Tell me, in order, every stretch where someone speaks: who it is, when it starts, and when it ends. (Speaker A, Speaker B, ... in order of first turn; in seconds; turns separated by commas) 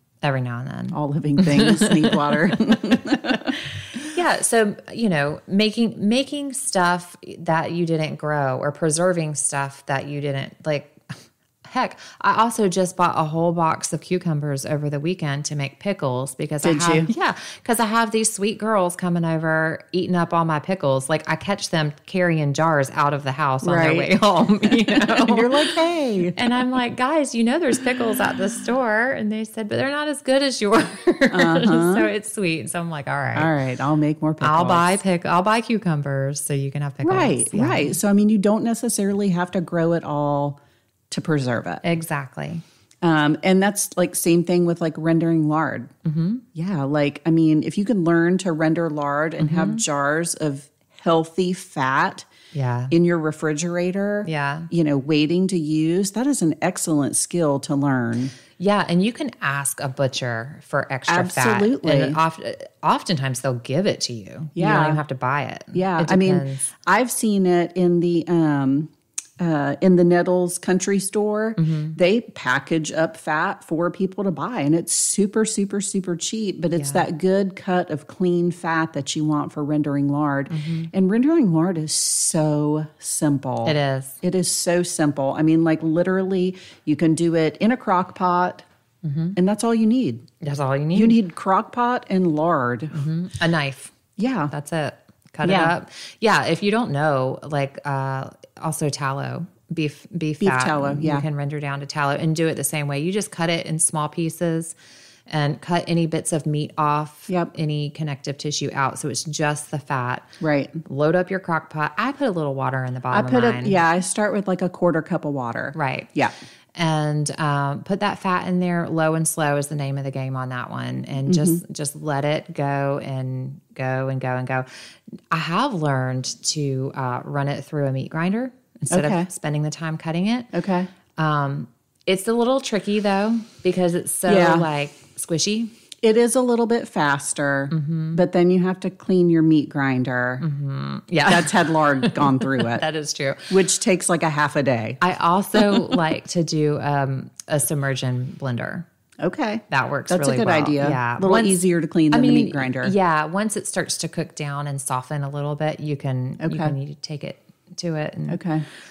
Speaker A: 0.2-25.8, Speaker B: 0.9-3.6, Speaker B: 16.6-17.1, Speaker B: 23.6-24.1, Speaker B: 25.1-26.4, Speaker A: 26.4-33.5, Speaker B: 31.3-32.1, Speaker B: 33.4-35.0, Speaker A: 34.4-38.0, Speaker B: 37.0-40.6, Speaker B: 41.1-41.8, Speaker A: 41.8-42.6, Speaker B: 43.0-45.9, Speaker A: 46.0-46.4, Speaker B: 46.5-52.3, Speaker A: 49.4-49.8, Speaker A: 52.5-52.9, Speaker B: 52.9-58.3, Speaker A: 54.2-54.7, Speaker A: 58.6-66.7, Speaker B: 61.1-62.2, Speaker B: 64.6-65.0, Speaker B: 65.7-88.7, Speaker A: 71.6-72.0, Speaker A: 76.8-77.0, Speaker A: 80.5-80.9, Speaker A: 83.7-84.2, Speaker A: 89.0-89.4, Speaker B: 89.4-90.3, Speaker A: 90.4-91.2, Speaker B: 90.9-93.0, Speaker A: 92.9-93.9, Speaker B: 94.2-94.5, Speaker A: 94.5-104.7, Speaker B: 95.4-95.7, Speaker B: 100.4-101.2, Speaker A: 105.3-110.3, Speaker B: 110.4-110.8, Speaker A: 110.8-113.8, Speaker B: 113.1-116.3, Speaker A: 115.8-116.1, Speaker A: 116.8-124.7, Speaker B: 121.3-121.6, Speaker A: 125.3-130.5, Speaker B: 128.9-129.3, Speaker B: 130.5-130.9, Speaker A: 131.2-135.7, Speaker B: 134.3-134.7, Speaker B: 136.0-140.4, Speaker A: 137.7-138.2, Speaker A: 140.4-143.5, Speaker B: 141.3-142.8, Speaker B: 143.5-145.0, Speaker A: 145.0-148.9, Speaker B: 145.6-145.9, Speaker B: 149.2-152.9, Speaker A: 149.7-151.6, Speaker A: 152.1-158.4, Speaker B: 156.4-156.8, Speaker B: 158.3-158.7